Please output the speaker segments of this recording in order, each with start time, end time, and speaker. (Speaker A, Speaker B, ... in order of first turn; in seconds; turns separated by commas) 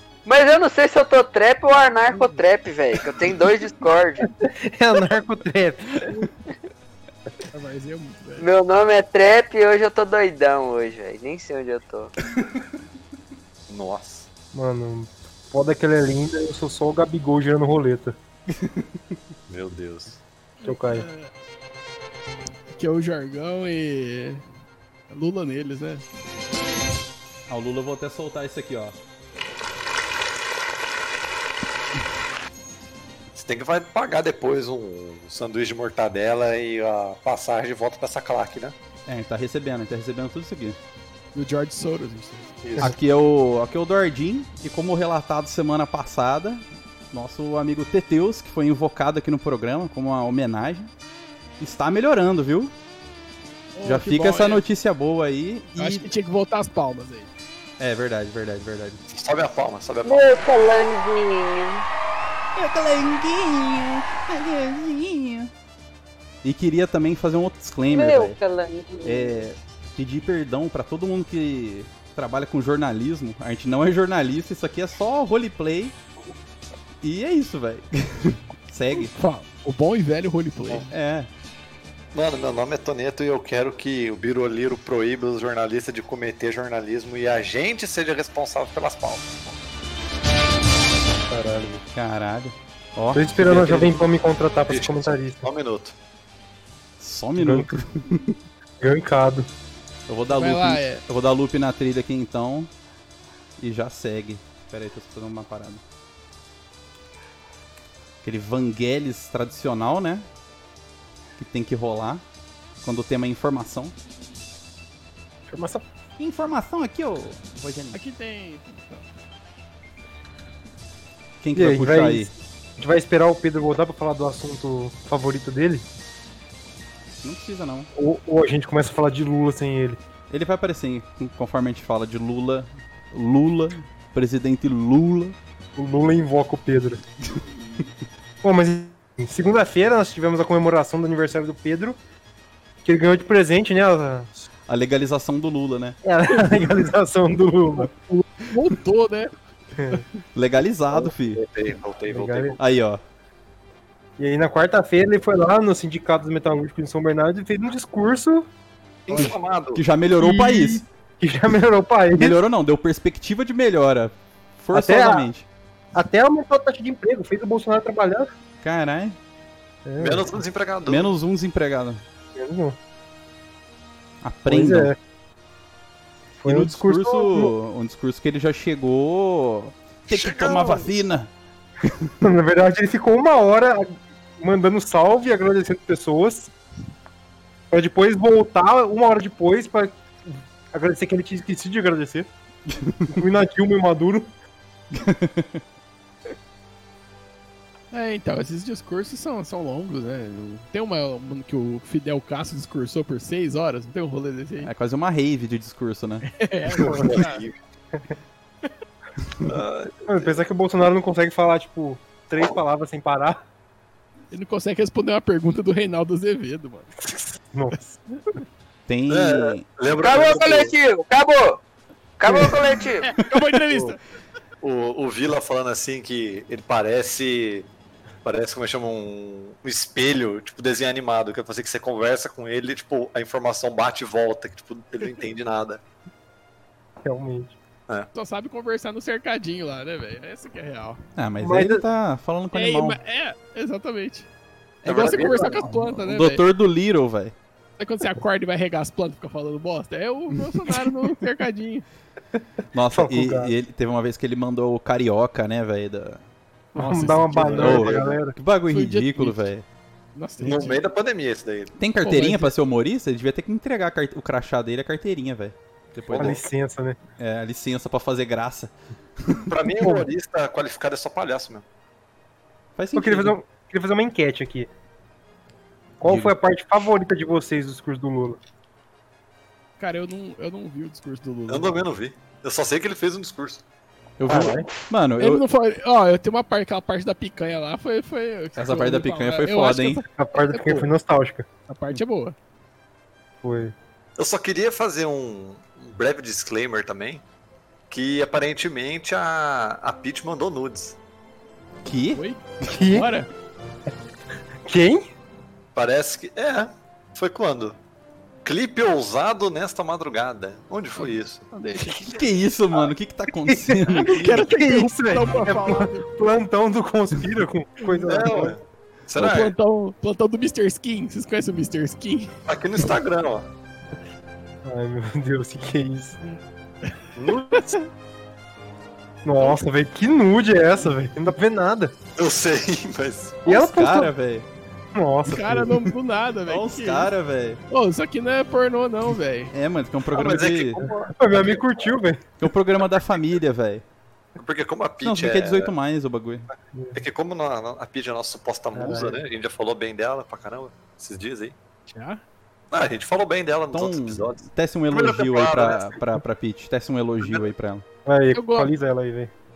Speaker A: 0.2-4.3, Speaker B: 4.3-6.3, Speaker C: 7.5-8.4, Speaker A: 8.4-12.1, Speaker D: 13.7-14.3, Speaker B: 14.5-18.1, Speaker D: 19.5-20.2, Speaker C: 20.6-21.3, Speaker B: 20.6-21.0, Speaker C: 22.7-24.4, Speaker C: 25.1-26.0, Speaker E: 27.5-29.0, Speaker D: 33.3-38.7, Speaker E: 39.1-40.8, Speaker C: 41.3-42.5, Speaker D: 42.6-42.9, Speaker E: 42.8-50.9, Speaker E: 51.6-52.7, Speaker C: 53.7-54.6, Speaker E: 53.8-56.1, Speaker C: 55.8-57.3, Speaker E: 57.8-59.0, Speaker D: 59.1-60.2, Speaker A: 60.0-61.8, Speaker E: 62.5-65.5, Speaker E: 66.4-68.4, Speaker A: 67.9-69.4, Speaker E: 69.0-75.9, Speaker E: 77.0-79.1, Speaker C: 78.9-80.8, Speaker E: 80.9-81.3, Speaker D: 82.1-89.5, Speaker B: 91.3-91.8, Speaker E: 91.9-94.0, Speaker B: 93.1-95.4, Speaker D: 94.7-95.9, Speaker E: 97.0-98.3, Speaker B: 97.4-97.7, Speaker B: 98.8-99.5, Speaker E: 100.1-102.7, Speaker C: 100.3-101.0, Speaker E: 103.6-105.8, Speaker E: 108.2-110.2, Speaker E: 111.4-112.2, Speaker E: 112.8-113.9, Speaker B: 115.5-115.8, Speaker E: 116.2-118.0, Speaker C: 117.9-119.0, Speaker E: 121.4-122.3, Speaker B: 121.5-125.8, Speaker E: 127.2-127.9, Speaker B: 128.0-130.0, Speaker E: 130.3-135.3, Speaker B: 135.8-137.0, Speaker B: 138.4-142.0, Speaker B: 142.8-144.3, Speaker E: 144.7-145.9, Speaker B: 146.0-147.9, Speaker C: 148.1-149.3, Speaker B: 149.8-150.0, Speaker E: 150.3-151.4, Speaker D: 151.0-152.6, Speaker B: 152.1-152.6, Speaker E: 152.6-153.0, Speaker B: 154.2-158.5, Speaker D: 159.1-159.8, Speaker E: 159.1-160.8, Speaker B: 160.2-162.4, Speaker E: 162.1-165.4, Speaker B: 164.7-165.3, Speaker B: 165.9-168.3, Speaker E: 168.6-169.2, Speaker B: 169.8-170.4, Speaker D: 170.0-171.1, Speaker E: 170.8-172.0, Speaker B: 172.3-172.8, Speaker E: 174.2-174.9, Speaker B: 174.5-174.9, Speaker B: 176.4-177.5, Speaker E: 176.4-181.3, Speaker D: 180.1-180.9, Speaker E: 181.8-182.2, Speaker B: 182.2-186.5, Speaker B: 187.7-192.3, Speaker E: 192.7-193.2, Speaker B: 193.1-194.3, Speaker E: 194.9-195.6, Speaker C: 197.9-204.7, Speaker E: 204.6-206.3, Speaker C: 206.3-207.4, Speaker D: 206.7-207.6, Speaker D: 209.4-210.4, Speaker B: 210.1-213.4, Speaker C: 214.3-216.9, Speaker B: 217.2-217.9, Speaker E: 218.9-219.6, Speaker D: 219.1-220.7, Speaker A: 220.0-221.6, Speaker A: 222.2-223.1, Speaker B: 222.2-222.6, Speaker C: 223.0-224.0, Speaker D: 223.7-223.9, Speaker D: 224.6-227.7, Speaker D: 228.2-235.8, Speaker B: 237.0-237.5, Speaker C: 238.1-241.0, Speaker E: 241.2-243.0, Speaker B: 241.4-241.8, Speaker C: 242.5-244.3, Speaker D: 244.8-245.7, Speaker C: 244.8-246.4, Speaker E: 245.6-247.3, Speaker C: 247.8-251.8, Speaker E: 252.7-256.2, Speaker B: 252.9-253.5, Speaker C: 256.7-257.7, Speaker B: 256.7-258.3, Speaker D: 257.3-258.1, Speaker E: 257.6-259.6, Speaker C: 258.7-259.4, Speaker C: 260.1-260.8, Speaker D: 260.4-261.7, Speaker E: 261.8-266.4, Speaker C: 262.0-262.5, Speaker D: 266.1-266.4, Speaker B: 266.1-267.0, Speaker E: 267.2-269.5, Speaker D: 269.5-271.6, Speaker B: 269.8-270.1, Speaker E: 272.8-273.4, Speaker B: 272.9-274.7, Speaker B: 276.0-278.4, Speaker E: 276.0-276.3, Speaker C: 279.8-281.7, Speaker D: 281.5-283.6, Speaker E: 284.2-285.4, Speaker B: 284.3-284.7, Speaker C: 285.2-290.9, Speaker E: 288.6-290.0, Speaker B: 290.2-291.4, Speaker C: 291.7-292.3, Speaker B: 293.4-293.7, Speaker D: 294.2-297.2, Speaker D: 297.9-301.0, Speaker E: 301.8-302.2, Speaker C: 302.1-303.3, Speaker B: 302.7-303.1, Speaker B: 304.6-305.1, Speaker D: 305.7-307.8, Speaker D: 308.4-311.4, Speaker C: 311.0-312.2, Speaker E: 312.0-314.4, Speaker B: 313.5-318.6, Speaker C: 314.0-316.1, Speaker D: 318.0-319.5, Speaker C: 319.1-322.3, Speaker D: 322.5-323.5, Speaker B: 324.6-326.2, Speaker D: 327.1-327.7, Speaker C: 327.5-327.9, Speaker B: 329.2-332.0, Speaker D: 332.1-333.4, Speaker B: 333.4-334.1, Speaker E: 333.4-334.4, Speaker B: 334.9-335.8, Speaker C: 335.3-337.1, Speaker E: 336.5-337.6, Speaker C: 337.7-339.5, Speaker E: 339.5-340.9, Speaker D: 340.1-341.1, Speaker B: 341.1-342.2, Speaker E: 342.4-343.8, Speaker D: 344.4-345.7, Speaker E: 345.0-346.5, Speaker D: 346.9-351.5, Speaker B: 348.7-349.2, Speaker C: 351.9-352.2, Speaker D: 352.7-356.0, Speaker E: 353.7-357.8, Speaker B: 358.1-359.3, Speaker C: 358.3-358.7